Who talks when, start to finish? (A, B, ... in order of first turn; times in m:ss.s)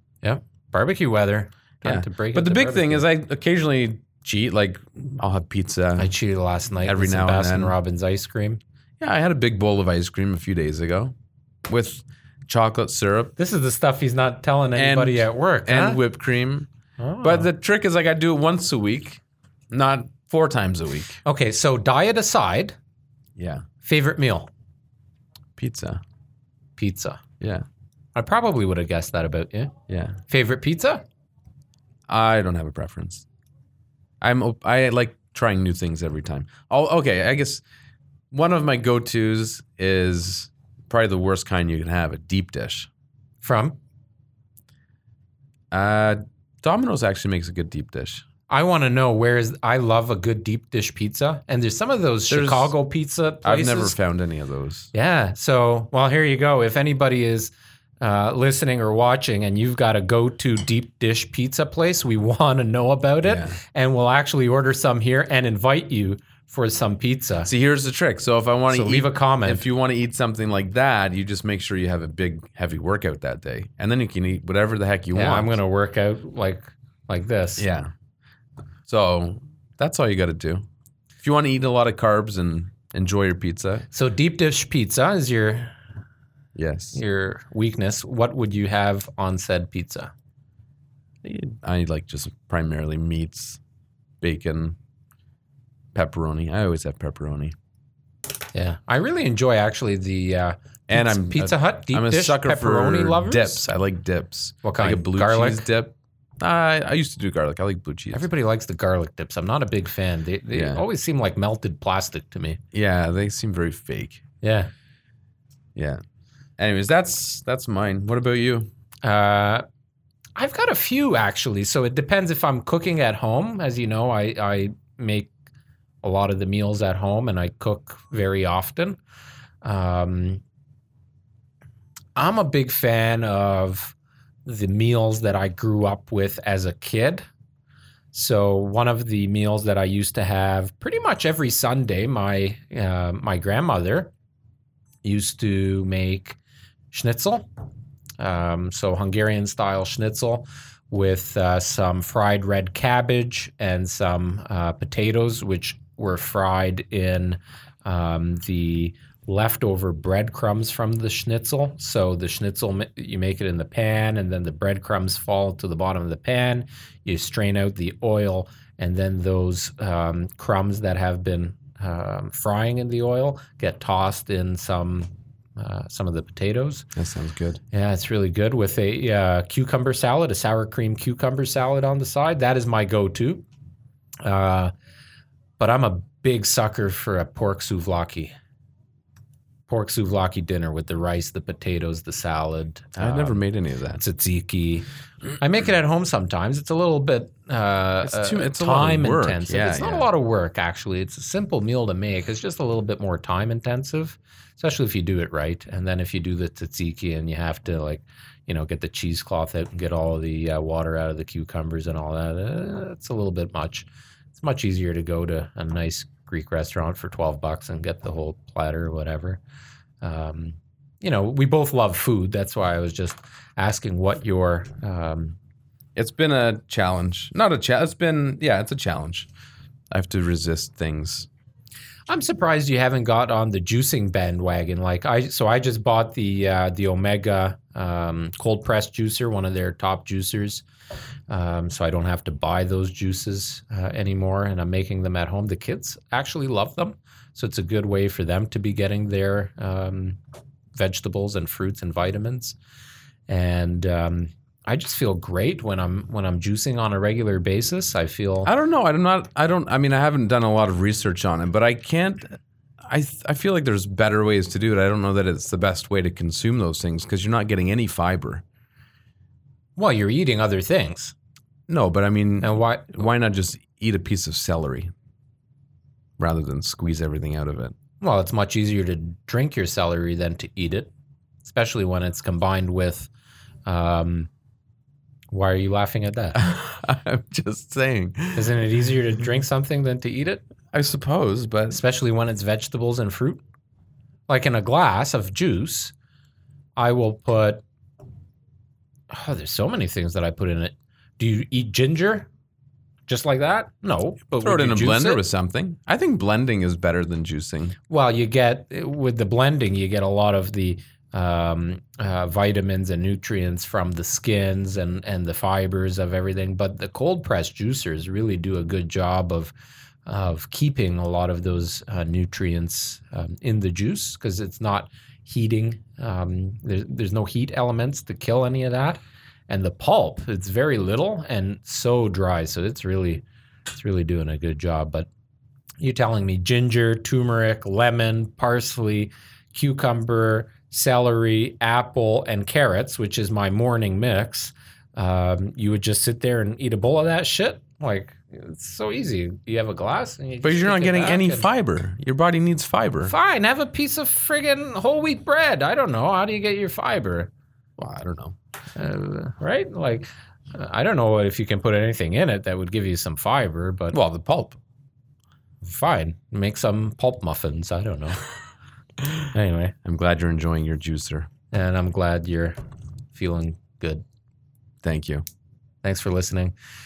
0:00.2-0:03.0 A
0:01.8-0:06.1 B
0:06.0-0:08.6 A
0:06.8-0:07.8 B
0:09.0-0:11.2 B
0:11.7-0:13.3 B
0:13.4-0:16.0 A
0:14.8-0:16.7 B
0:17.0-0:17.5 A
0:17.2-0:21.2 B
0:21.2-0:22.8 A
0:23.4-0:23.6 B
0:23.8-0:24.5 A
0:25.6-0:26.0 B
0:26.8-0:27.2 A
0:27.4-0:27.6 B
0:28.2-0:29.7 A
0:29.9-0:30.2 B
0:30.3-0:31.0 A
0:32.1-0:33.3 B
0:34.2-0:37.6 B
0:38.3-0:42.9 B
0:43.4-0:43.8 A
0:45.7-0:48.2 B
0:48.5-0:54.0 A
0:52.3-0:52.7 B
0:53.4-0:54.9 B
0:54.9-1:07.5 A
1:03.2-1:03.6 B
1:07.4-1:15.6 B
1:08.7-1:09.6 A
1:15.1-1:17.6 A
1:17.6-1:17.9 B
1:18.9-1:20.7 B
1:21.2-1:23.9 B
1:23.9-1:25.8 A
1:26.6-1:27.0 B
1:27.0-1:30.1 A
1:31.2-1:33.6 B
1:34.2-1:34.8 B
1:35.9-1:37.6 B
1:38.5-1:43.6 A
1:40.9-1:48.3 B
1:44.6-1:45.6 A
1:48.1-1:52.6 A
1:50.5-1:50.8 B
1:52.7-1:54.2 B
1:54.4-1:54.7 A
1:55.8-1:56.0 B
1:56.6-1:58.7 B
1:59.0-1:59.6 A
2:00.4-2:05.3 A
2:06.0-2:09.0 A
2:09.6-2:10.4 A
2:12.2-2:17.2 A
2:18.1-2:24.1 A
2:25.0-2:26.4 A
2:26.9-2:27.5 A
2:28.2-2:56.9 A
2:57.0-2:57.6 B
2:57.7-3:03.4 A
3:04.2-3:04.7 A
3:05.6-3:08.3 A
3:09.7-3:13.4 A
3:13.0-3:14.0 B
3:14.0-3:14.9 A
3:15.4-3:39.4 A
3:18.0-3:20.1 B
3:40.0-3:45.4 A
3:46.0-3:49.3 B
3:49.9-3:51.3 B
3:52.1-4:00.6 A
4:01.3-4:10.2 A
4:10.8-4:12.6 A
4:13.3-4:18.5 A
4:18.4-4:28.4 B
4:29.8-4:31.2 A
4:31.7-4:34.9 B
4:32.4-4:33.0 A
4:36.2-4:37.8 B
4:38.0-4:40.9 A
4:41.4-4:43.1 A
4:43.7-4:44.3 A
4:45.3-4:46.4 A
4:46.4-4:48.6 B
4:48.4-4:50.4 A
4:50.7-4:51.8 B
4:51.7-4:53.4 A
4:54.3-4:55.9 A
4:56.8-4:57.6 A
4:59.1-5:02.3 A
5:03.1-5:05.2 A
5:04.4-5:07.8 B
5:07.9-5:19.5 A
5:20.1-5:33.2 A
5:33.8-5:35.1 A
5:35.8-5:51.4 A
5:50.4-5:53.1 B
5:53.0-5:57.3 A
5:57.8-5:58.4 B
5:58.8-6:04.0 A
6:03.9-6:04.6 B
6:05.6-6:08.2 A
6:09.3-6:09.8 A
6:09.8-6:11.3 B
6:11.5-6:12.6 A
6:13.1-6:14.0 A
6:14.8-6:15.2 B
6:15.8-6:16.5 A